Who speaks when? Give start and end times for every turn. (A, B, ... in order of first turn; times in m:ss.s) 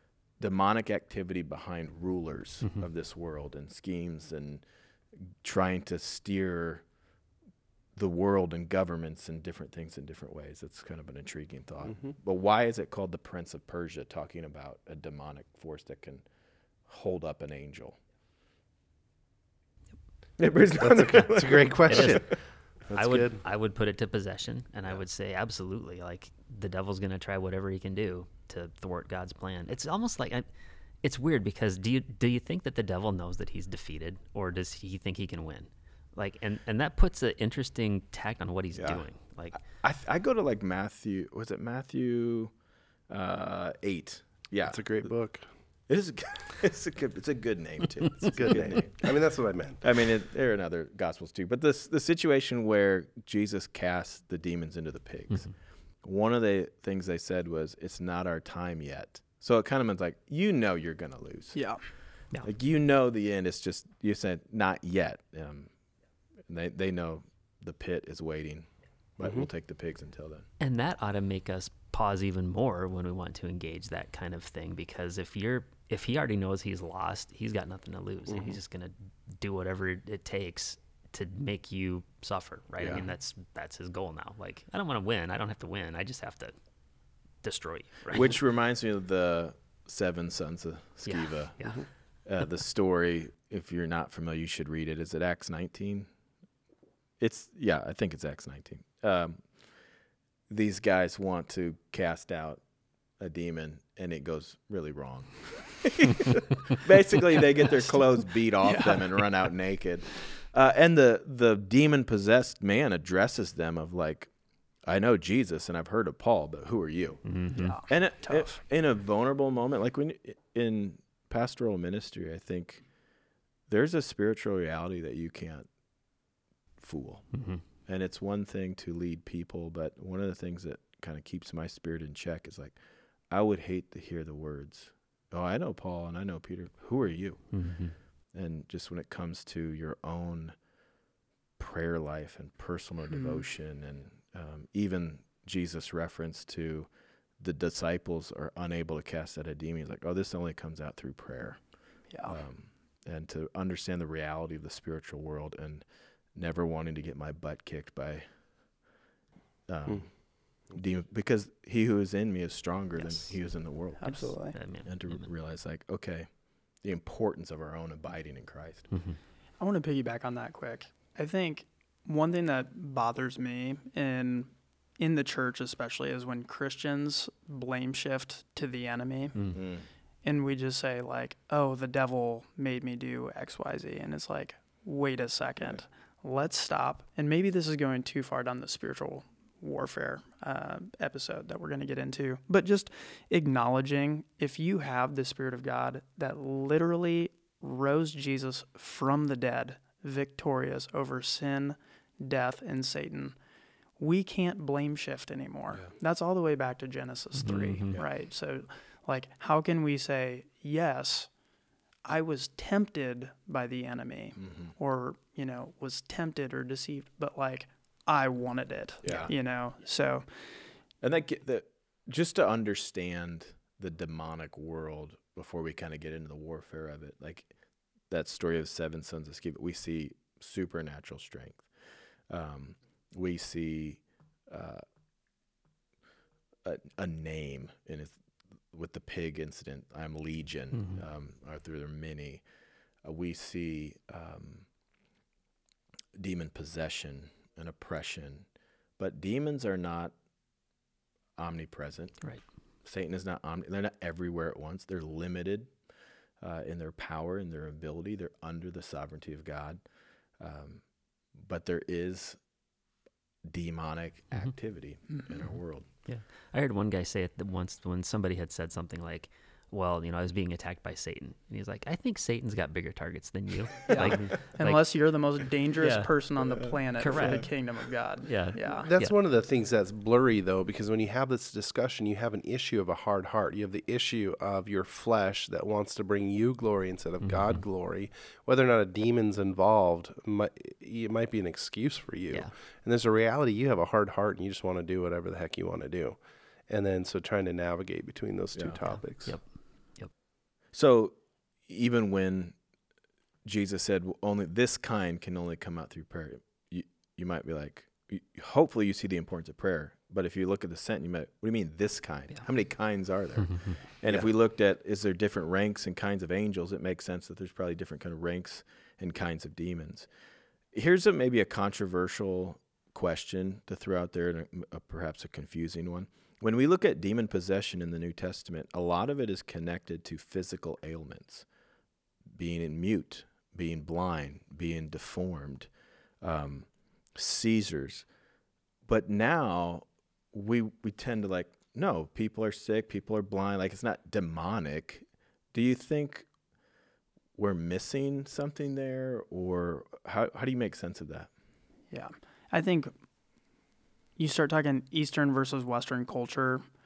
0:00.4-0:04.6 A
0:05.3-0:06.8 A
0:07.9-0:16.2 A
0:16.8-0:18.0 A
0:20.4-0:22.3 A
0:20.8-0:23.4 B
0:21.9-0:22.3 C
0:22.9-0:30.4 C
0:31.0-0:39.6 C
0:38.8-0:42.5 A
0:43.1-0:45.1 A
0:44.6-0:45.4 B
0:45.9-0:49.1 A
0:48.3-0:49.8 B
0:49.8-0:55.5 A
0:56.0-1:01.7 A
1:01.5-1:01.8 D
1:02.4-1:05.7 A
1:06.5-1:10.4 A
1:09.2-1:09.5 B
1:10.6-1:26.5 C
1:18.3-1:18.6 B
1:22.8-1:23.0 A
1:27.4-1:28.3 C
1:28.1-1:31.6 A
1:31.0-1:31.8 C
1:32.2-1:36.1 A
1:37.2-1:39.7 A
1:40.5-1:42.6 A
1:43.2-1:54.3 A
1:48.6-1:49.1 D
1:54.8-2:02.9 A
1:57.2-1:57.8 C
1:57.5-1:58.6 D
2:03.7-2:05.7 A
2:06.8-2:12.8 A
2:07.3-2:07.6 C
2:13.3-2:20.6 A
2:17.5-2:17.9 C
2:21.6-2:38.7 A
2:23.1-2:23.4 D
2:32.1-2:32.4 D
2:39.7-2:49.0 A
2:42.9-2:43.6 C
2:44.0-2:44.6 D
2:44.5-2:45.3 C
2:48.9-2:49.2 C
2:49.6-2:59.4 D
2:59.3-2:59.6 C
2:59.5-2:59.8 A
3:00.2-3:23.4 D
3:24.0-3:31.3 D
3:27.4-3:28.0 C
3:32.0-3:40.6 D
3:34.4-3:34.7 A
3:39.0-3:39.3 A
3:41.0-3:47.5 A
3:48.1-3:51.7 A
3:52.3-3:54.8 A
3:56.6-4:02.4 A
4:00.7-4:01.0 C
4:03.0-4:04.7 A
4:06.2-4:08.5 A
4:09.0-4:10.1 A
4:11.4-4:15.7 A
4:16.4-4:22.4 A
4:23.4-4:25.9 A
4:26.0-4:34.9 C
4:33.9-4:38.9 D
4:35.8-4:36.1 C
4:37.0-4:37.6 C
4:37.1-4:37.5 A
4:38.2-4:39.2 C
4:38.8-4:59.4 B
4:47.2-4:47.6 C
4:58.5-4:58.8 A
4:58.9-5:00.1 C
5:00.7-5:02.6 A
5:03.4-5:20.1 A
5:14.0-5:14.3 C
5:20.7-5:31.4 A
5:32.3-5:35.7 A
5:36.2-5:38.0 A
5:38.8-5:46.3 A
5:47.3-5:51.3 A
5:51.9-5:52.9 D
5:54.2-5:56.6 D